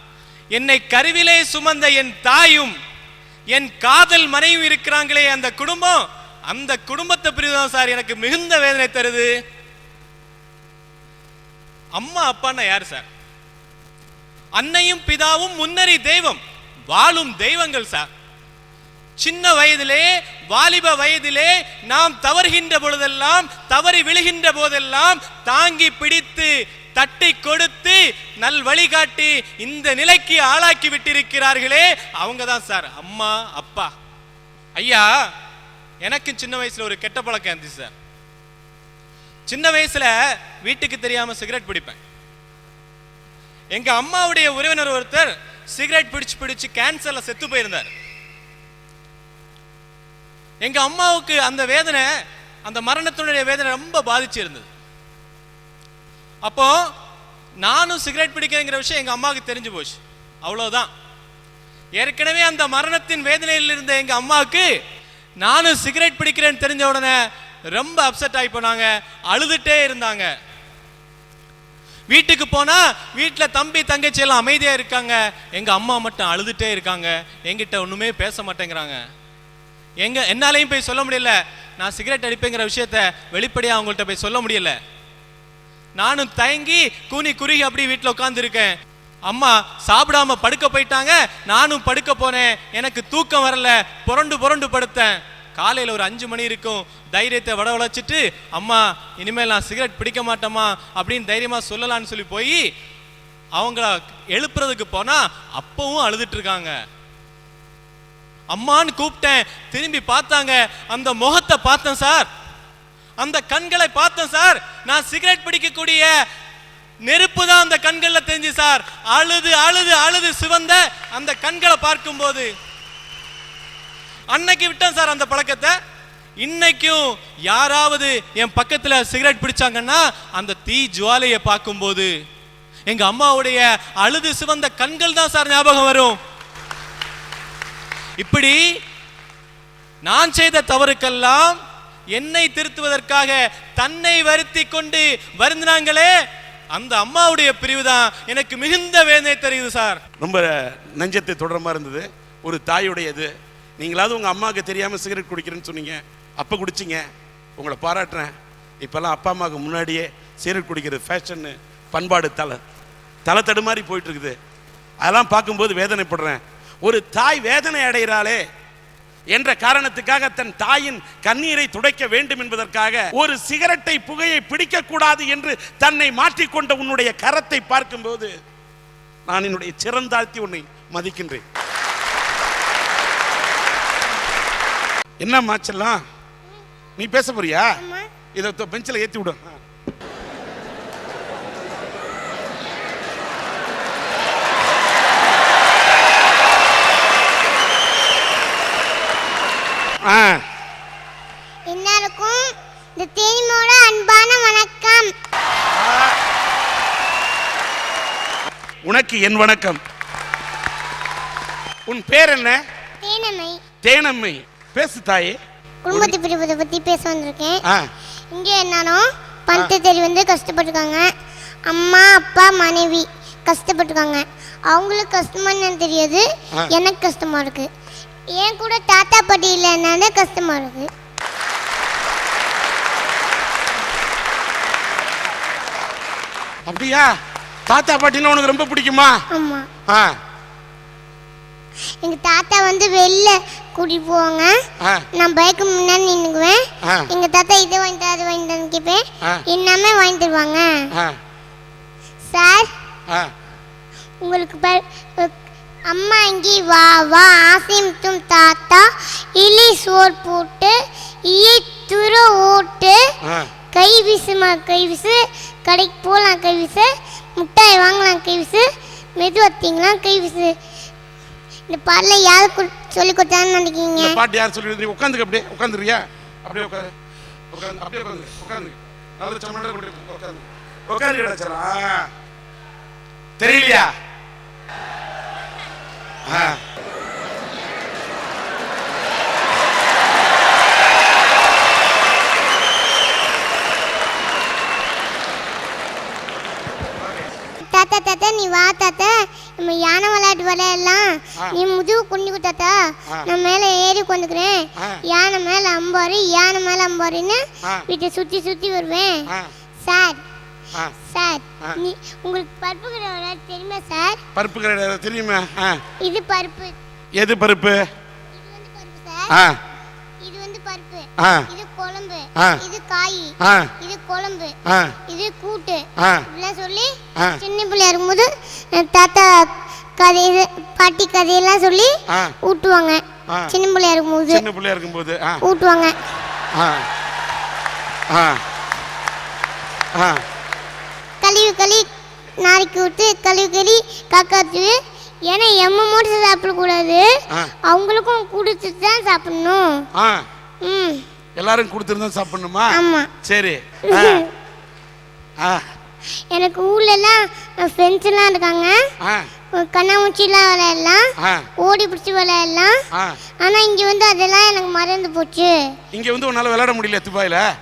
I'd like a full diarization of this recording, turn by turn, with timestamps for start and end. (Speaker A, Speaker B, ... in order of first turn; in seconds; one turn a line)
Speaker A: 0.5-2.7
Speaker A: 3.5-9.3
Speaker A: 11.9-13.0
Speaker A: 14.6-18.1
Speaker A: 19.2-33.9
Speaker A: 34.8-35.1
Speaker A: 36.0-37.9
Speaker A: 39.5-42.0
Speaker A: 43.7-47.9
Speaker A: 50.6-52.0
Speaker A: 52.6-54.6
Speaker A: 56.4-56.7
Speaker A: 57.6-60.9
Speaker A: 62.0-64.7
Speaker A: 65.4-67.1
Speaker A: 67.7-70.3
Speaker A: 72.1-79.0
Speaker A: 80.0-84.8
Speaker A: 86.0-88.7
Speaker A: 89.3-102.6
Speaker A: 103.6-106.8
Speaker A: 108.5-112.3
Speaker A: 113.2-116.1
Speaker A: 117.1-122.5
Speaker A: 124.3-125.7
Speaker A: 126.4-132.1
Speaker A: 132.9-136.2
Speaker A: 138.2-138.6
Speaker A: 140.0-141.6
Speaker A: 142.1-146.1
Speaker A: 146.7-150.0
Speaker B: 150.2-157.0
Speaker B: 157.6-162.6
Speaker B: 163.2-164.3
Speaker B: 165.0-168.4
Speaker B: 169.3-178.3
Speaker B: 179.3-181.4
Speaker B: 185.2-186.0
Speaker B: 187.0-187.8
Speaker C: 187.8-188.1
Speaker B: 188.3-189.6
Speaker B: 200.0-200.4
Speaker C: 201.7-205.1
Speaker B: 205.7-206.1
Speaker B: 208.8-209.8
Speaker B: 211.9-212.6
Speaker C: 213.0-213.6
Speaker B: 213.8-215.4
Speaker C: 215.8-217.6
Speaker C: 218.3-221.1
Speaker C: 221.7-227.7
Speaker C: 228.3-230.9
Speaker B: 236.7-237.1
Speaker B: 237.7-239.2
Speaker C: 239.3-239.7
Speaker B: 239.9-240.2
Speaker C: 242.0-244.6
Speaker B: 244.8-245.1
Speaker C: 245.2-250.8
Speaker B: 246.8-247.1
Speaker B: 250.9-251.2
Speaker C: 252.3-252.7
Speaker C: 254.2-255.3
Speaker C: 255.8-263.1
Speaker C: 263.7-270.5
Speaker C: 271.7-274.2
Speaker B: 273.9-276.9
Speaker B: 277.5-282.0
Speaker B: 283.4-283.9
Speaker B: 286.3-286.6
Speaker C: 297.6-309.2
Speaker C: 309.8-310.2
Speaker C: 311.0-314.2
Speaker B: 314.4-315.8
Speaker C: 316.0-316.8
Speaker B: 317.1-317.8
Speaker C: 318.4-319.4
Speaker B: 319.3-319.6
Speaker C: 320.2-324.6
Speaker B: 321.2-321.5
Speaker B: 322.4-322.6
Speaker B: 323.4-323.7
Speaker B: 324.7-324.9
Speaker C: 325.1-334.4
Speaker B: 326.0-326.3
Speaker B: 327.2-327.4
Speaker B: 333.3-333.6
Speaker B: 334.3-335.4
Speaker C: 335.4-335.9
Speaker B: 336.5-336.9
Speaker B: 338.1-338.4
Speaker B: 339.9-340.2
Speaker C: 341.2-341.9
Speaker C: 342.4-347.1
Speaker C: 347.6-349.8
Speaker B: 349.9-350.2
Speaker C: 350.6-351.0
Speaker B: 351.4-354.2
Speaker C: 352.8-353.1
Speaker B: 355.4-355.7
Speaker C: 356.1-358.9
Speaker B: 359.0-359.3
Speaker C: 359.5-362.8
Speaker B: 361.2-361.5
Speaker B: 362.9-363.2
Speaker C: 363.4-365.7
Speaker B: 365.9-367.4